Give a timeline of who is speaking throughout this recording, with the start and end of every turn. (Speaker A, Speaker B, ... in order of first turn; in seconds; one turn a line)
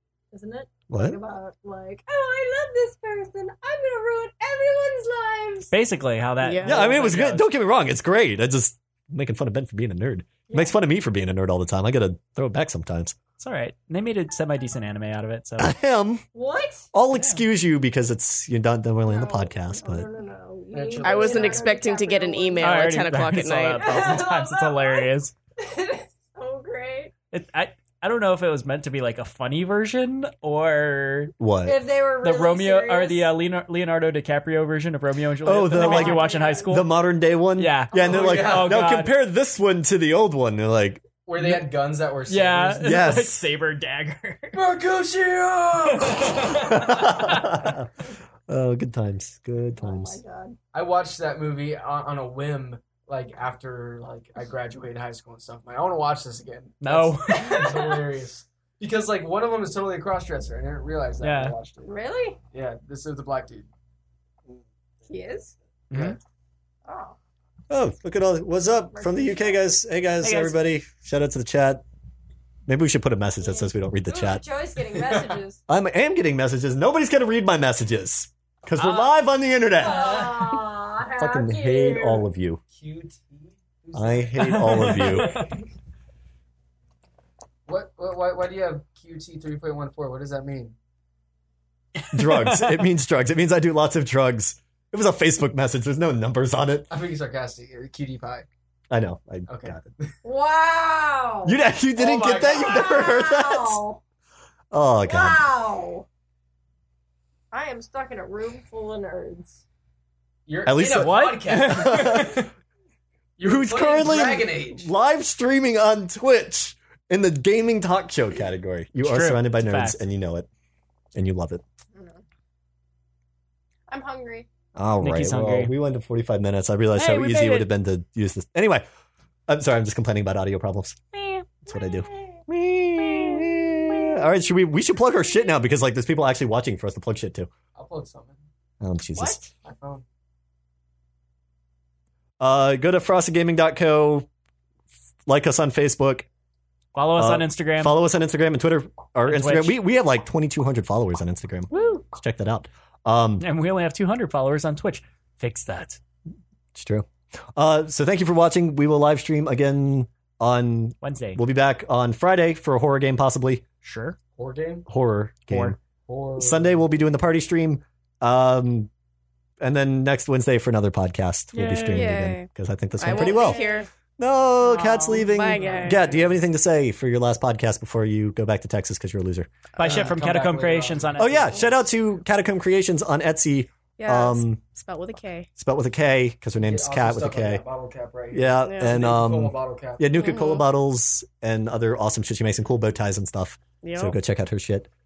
Speaker A: 0.3-5.7
Speaker B: 0.9-1.2
Speaker C: 5.7-7.5
Speaker D: 6.4-6.9
Speaker B: 6.6-13.2
Speaker A: 10.5-10.7
Speaker C: 13.4-15.8
Speaker B: 15.6-16.2
Speaker A: 16.3-16.9
Speaker B: 16.9-20.1
Speaker C: 17.1-17.4
Speaker A: 19.1-22.9
Speaker E: 20.7-21.7
Speaker D: 21.0-24.1
Speaker C: 22.6-25.3
Speaker A: 23.8-27.1
Speaker C: 27.3-31.4
Speaker B: 31.4-31.8
Speaker A: 31.6-33.3
Speaker C: 32.2-36.9
Speaker B: 35.5-41.5
Speaker A: 35.7-36.7
Speaker C: 37.6-39.1
Speaker E: 37.9-38.8
Speaker E: 41.3-42.9
Speaker C: 42.3-44.6
Speaker B: 42.8-43.4
Speaker E: 44.5-46.7
Speaker C: 46.0-46.7
Speaker B: 46.6-47.9
Speaker B: 48.5-50.2
Speaker A: 49.8-50.6
Speaker E: 50.7-61.9
Speaker C: 56.8-57.8
Speaker A: 57.3-58.1
Speaker C: 61.2-61.6
Speaker A: 61.9-62.4
Speaker E: 62.5-63.7
Speaker A: 65.0-65.5
Speaker E: 65.9-66.2
Speaker C: 65.9-66.2
Speaker A: 66.9-67.2
Speaker B: 67.7-71.8
Speaker A: 68.9-69.6
Speaker C: 70.2-70.6
Speaker B: 72.7-74.4
Speaker A: 73.6-75.6
Speaker E: 75.0-75.4
Speaker B: 75.7-80.6
Speaker C: 78.8-79.2
Speaker A: 79.8-82.3
Speaker B: 81.2-82.6
Speaker E: 82.7-85.0
Speaker B: 83.9-85.4
Speaker C: 84.4-85.5
Speaker E: 87.7-90.8
Speaker C: 92.0-92.8
Speaker B: 92.1-96.9
Speaker E: 96.9-98.5
Speaker B: 98.9-99.9
Speaker E: 99.5-100.1
Speaker A: 100.2-101.6
Speaker B: 101.5-103.8
Speaker E: 102.0-103.2
Speaker A: 102.5-104.0
Speaker B: 104.7-105.4
Speaker A: 105.0-106.1
Speaker A: 107.5-109.6
Speaker E: 110.5-112.3
Speaker B: 110.7-112.5
Speaker C: 110.8-112.5
Speaker E: 113.4-114.9
Speaker B: 113.4-120.5
Speaker C: 119.0-120.0
Speaker B: 121.1-121.6
Speaker A: 122.0-122.2
Speaker A: 123.9-124.5
Speaker B: 124.8-128.8
Speaker C: 125.0-125.7
Speaker C: 127.0-127.7
Speaker B: 129.5-131.0
Speaker A: 131.3-132.4
Speaker B: 131.7-137.5
Speaker E: 137.8-138.4
Speaker B: 138.8-139.4
Speaker A: 139.1-139.5
Speaker E: 139.6-140.0
Speaker B: 142.4-144.3
Speaker B: 145.3-146.3
Speaker C: 146.9-148.0
Speaker B: 147.2-153.4
Speaker C: 149.3-149.8
Speaker C: 151.8-152.0
Speaker C: 153.4-156.0
Speaker B: 156.8-163.6
Speaker C: 161.0-161.4
Speaker C: 163.8-164.2
Speaker E: 164.4-164.9
Speaker B: 164.9-165.8
Speaker C: 165.5-165.8
Speaker E: 166.1-166.8
Speaker B: 166.4-168.9
Speaker B: 169.6-173.6
Speaker D: 171.5-173.9
Speaker A: 173.1-173.9
Speaker B: 174.2-179.5
Speaker D: 174.6-176.1
Speaker E: 175.5-176.3
Speaker C: 179.8-181.8
Speaker E: 179.8-181.4
Speaker B: 181.2-184.6
Speaker D: 184.0-185.5
Speaker B: 185.6-187.6
Speaker E: 186.6-190.3
Speaker B: 188.3-194.9
Speaker D: 188.6-189.1
Speaker D: 190.2-190.7
Speaker D: 193.8-194.1